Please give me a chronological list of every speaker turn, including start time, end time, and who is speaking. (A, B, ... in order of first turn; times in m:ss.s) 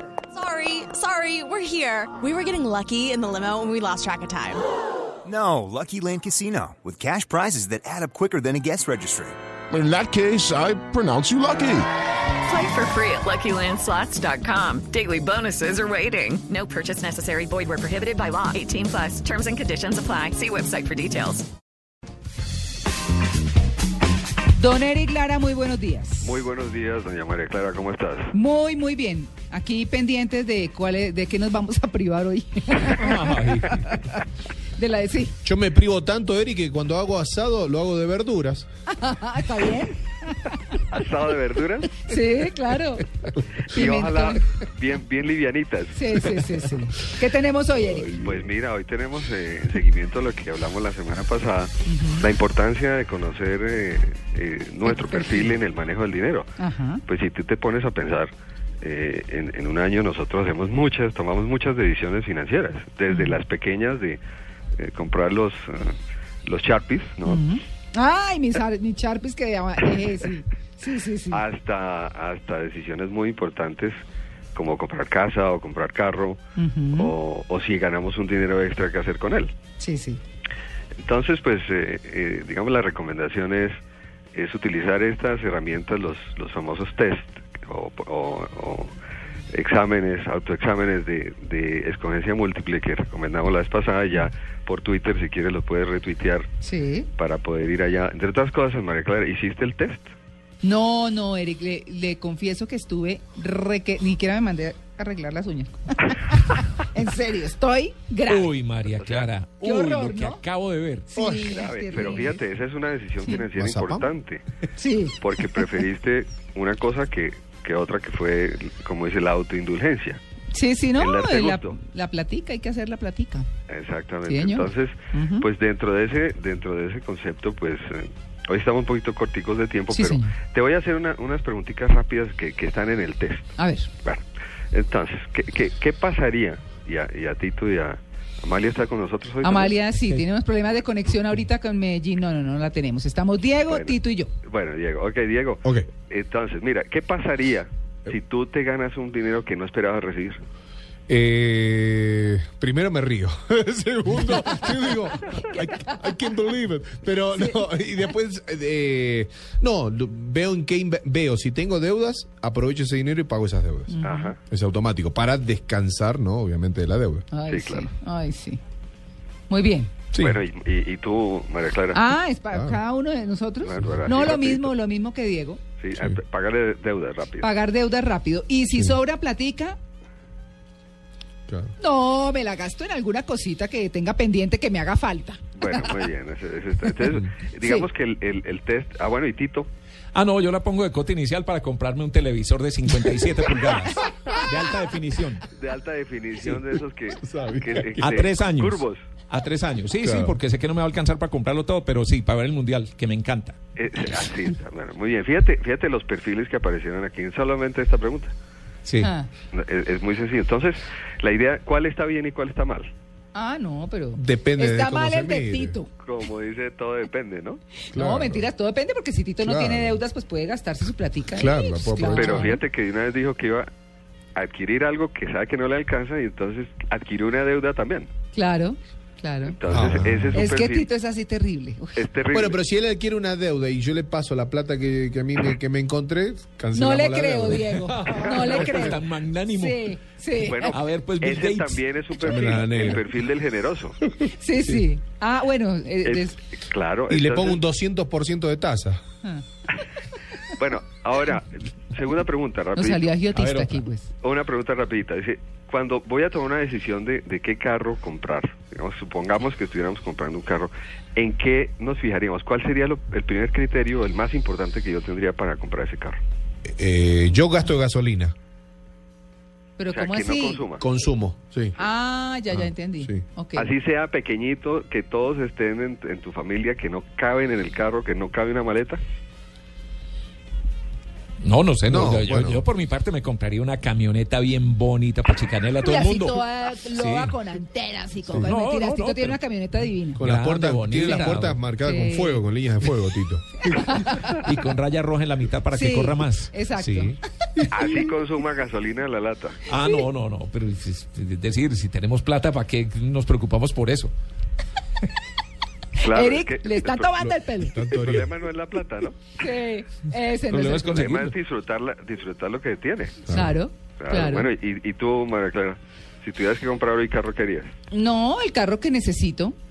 0:00.3-0:04.6 A
0:05.2-0:09.4 B
0:09.7-0:11.9 C
0:12.4-0:21.5 D
0:24.6-0:26.3 E
0:26.2-0:28.4 F
0:28.3-0:34.0 E
0:33.0-0:33.8 G
0:34.8-0:35.4 E
0:35.4-0:38.7 H
0:38.9-0:40.6 E
0:40.9-0:42.0 F
0:42.0-0:44.4 E
0:43.6-0:46.4 F
0:45.9-0:48.3 E
0:48.2-0:56.5 F
0:51.9-0:52.3 E
0:54.9-0:55.4 E
0:56.6-0:57.0 E
0:57.1-0:58.3 F
0:58.8-1:04.2 F
1:03.1-1:03.4 E
1:04.8-1:05.9 F
1:06.5-1:07.4 F
1:07.2-1:11.4 E
1:11.3-1:14.0 F
1:14.6-1:16.4 F
1:16.6-1:17.1 E
1:17.0-1:19.5 F
1:19.8-1:20.2 E
1:21.0-1:23.8 F
1:24.4-1:28.9 F
1:29.5-1:36.5 F
1:36.6-1:37.1 E
1:37.1-1:40.1 F
1:40.6-1:48.5 E
1:48.3-1:51.1 G
1:49.0-1:49.3 F
1:49.6-1:50.4 E
1:51.1-1:52.4 E
1:51.2-1:51.6 H
1:51.3-1:54.4 F
1:53.5-1:54.1 H
1:54.8-1:55.2 E
1:55.1-2:00.2 F
2:00.5-2:03.5 E
2:01.0-2:01.8 F
2:03.7-2:19.8 F
2:04.3-2:05.4 E
2:09.9-2:10.3 E
2:13.6-2:13.9 E
2:19.4-2:24.3 E
2:23.7-2:30.4 F
2:31.1-2:47.3 H
2:35.5-2:36.2 E
2:43.9-2:44.3 E
2:44.0-2:44.4 F
2:47.3-2:48.6 E
2:47.5-2:47.9 F
2:49.5-2:49.9 E
2:50.1-2:50.4 H
2:50.2-2:52.1 F
2:51.9-2:55.6 E
2:52.5-2:52.8 H
2:53.6-2:54.7 F
2:55.8-2:57.5 F
2:57.4-2:59.8 E
3:01.5-3:01.7 H
3:01.8-3:05.4 E
3:05.6-3:09.7 F
3:07.6-3:07.9 E
3:10.1-3:15.4 G
3:15.5-3:19.0 F
3:17.2-3:17.8 H
3:17.9-3:23.6 G
3:20.0-3:20.4 H
3:23.8-3:28.3 F
3:28.8-3:29.1 H
3:29.0-3:29.3 E
3:29.5-3:32.9 F
3:33.3-3:35.9 E
3:34.2-3:35.8 H
3:36.0-3:37.6 F
3:37.9-3:42.6 E
3:37.9-3:38.5 H
3:39.4-3:40.0 H
3:41.3-3:42.6 H
3:42.0-3:43.7 F
3:44.4-3:48.1 F
3:48.3-3:49.6 E
3:49.4-3:50.9 F
3:49.7-3:50.5 H
3:50.3-3:52.0 E
3:52.0-3:52.6 F
3:52.3-3:57.7 H
3:56.7-4:00.8 E
3:57.7-3:59.9 G
4:00.4-4:04.0 F
4:00.6-4:01.8 G
4:02.2-4:03.0 H
4:04.3-4:06.4 E
4:06.0-4:07.6 F
4:07.1-4:09.0 H
4:10.5-4:13.2 F
4:12.8-4:14.1 E
4:13.3-4:13.8 G
4:14.2-4:26.2 F
4:26.7-4:28.3 H
4:29.8-4:30.7 E
4:29.9-4:30.9 F
4:30.8-4:31.8 H
4:31.8-4:33.7 E
4:32.5-4:33.2 H
4:33.6-4:39.0 F
4:41.4-4:47.4 G
4:41.9-4:42.6 H
4:45.8-4:50.2 E
4:48.3-4:49.4 G
4:50.2-4:54.2 H
4:50.2-4:51.6 G
4:51.8-4:52.4 E
4:53.7-4:54.4 E
4:54.3-4:57.2 G
4:55.7-4:57.2 E
4:57.7-4:59.6 F
4:59.7-5:04.1 G
4:59.8-5:00.1 E
5:06.0-5:07.8 E
5:06.0-5:09.3 F
5:07.6-5:08.3 H
5:09.4-5:10.9 E
5:10.5-5:11.3 G
5:10.8-5:13.3 F
5:13.3-5:13.6 H
5:13.3-5:14.5 E
5:14.0-5:17.7 F
5:17.9-5:19.6 E